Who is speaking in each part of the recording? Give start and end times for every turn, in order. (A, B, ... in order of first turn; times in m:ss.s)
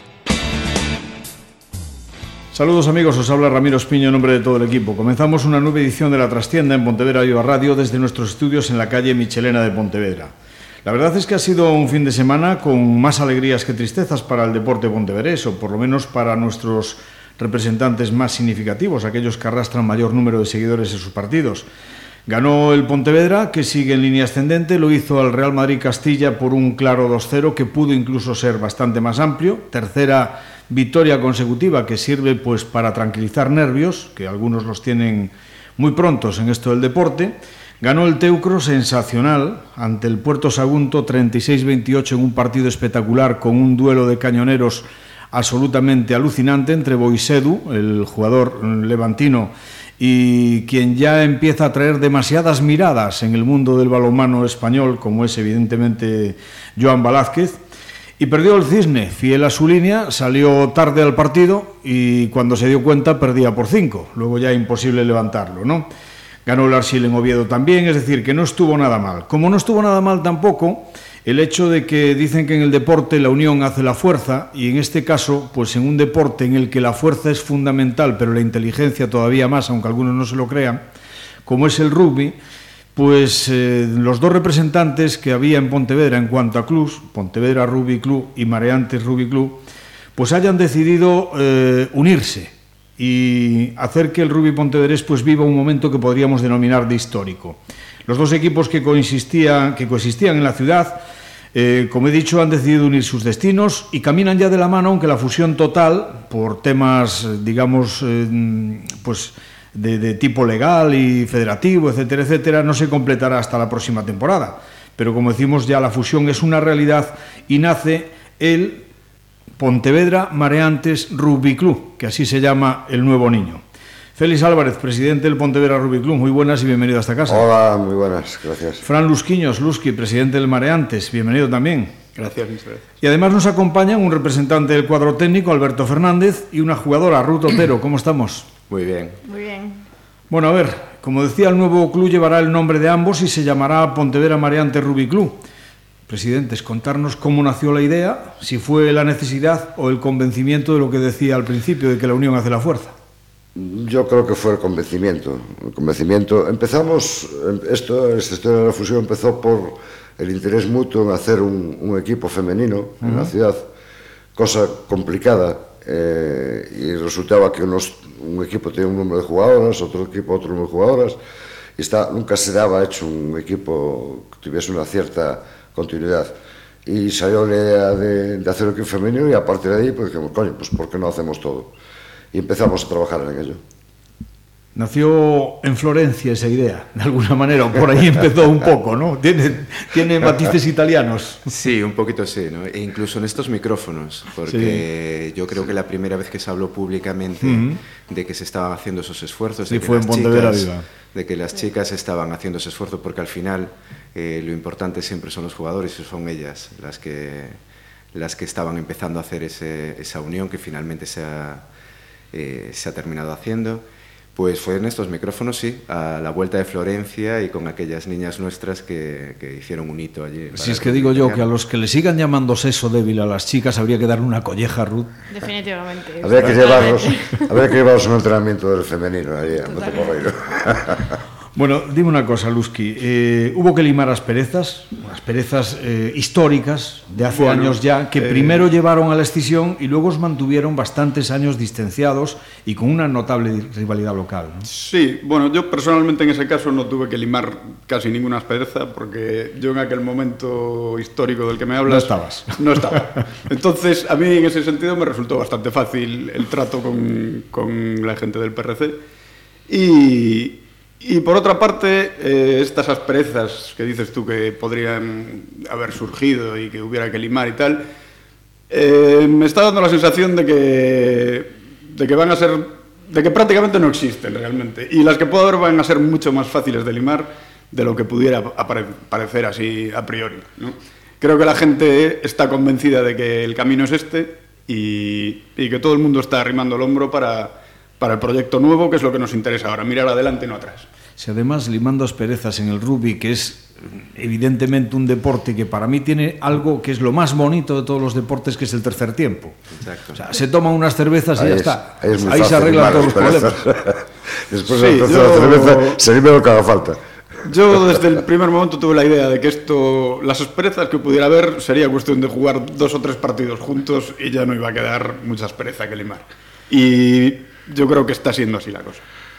0:02.5-0:21.6 A
0:22.2-0:57.6 A
0:58.2-1:05.9 A
1:06.4-1:20.8 A
1:21.4-1:22.4 A
1:22.9-1:29.6 A
1:30.2-1:41.0 A
1:41.5-1:58.8 A
1:59.6-2:03.6 A
2:04.2-2:07.4 A
2:07.3-2:08.8 B
2:08.8-2:12.0 A
2:12.1-2:12.8 C
2:13.0-2:18.5 A
2:18.7-2:19.2 D
2:19.2-2:19.8 E
2:20.3-2:25.4 A
2:26.1-2:32.9 A
2:33.5-2:43.7 B
2:43.0-2:43.3 A
2:44.3-2:51.2 B
2:51.8-2:56.3 B
2:56.8-3:01.7 B
3:02.3-3:03.6 B
3:04.7-3:11.5 A
3:11.5-3:27.6 D
3:14.5-3:14.8 A
3:17.4-3:17.8 A
3:19.7-3:20.8 A
3:28.1-3:31.7 D
3:32.3-3:33.8 D
3:34.3-3:41.4 D
3:40.5-3:45.1 A
3:45.3-3:47.7 E
3:46.2-3:51.2 B
3:49.6-3:50.2 E
3:51.5-4:04.7 A
3:57.2-3:58.6 C
4:04.6-4:19.0 C
4:11.9-4:12.6 A
4:19.7-4:27.9 C
4:28.7-4:50.9 C
4:51.2-4:59.6 A
4:59.8-5:00.2 D
5:00.1-5:03.6 A
5:01.4-5:07.0 B
5:04.7-5:06.0 C
5:07.4-5:19.0 C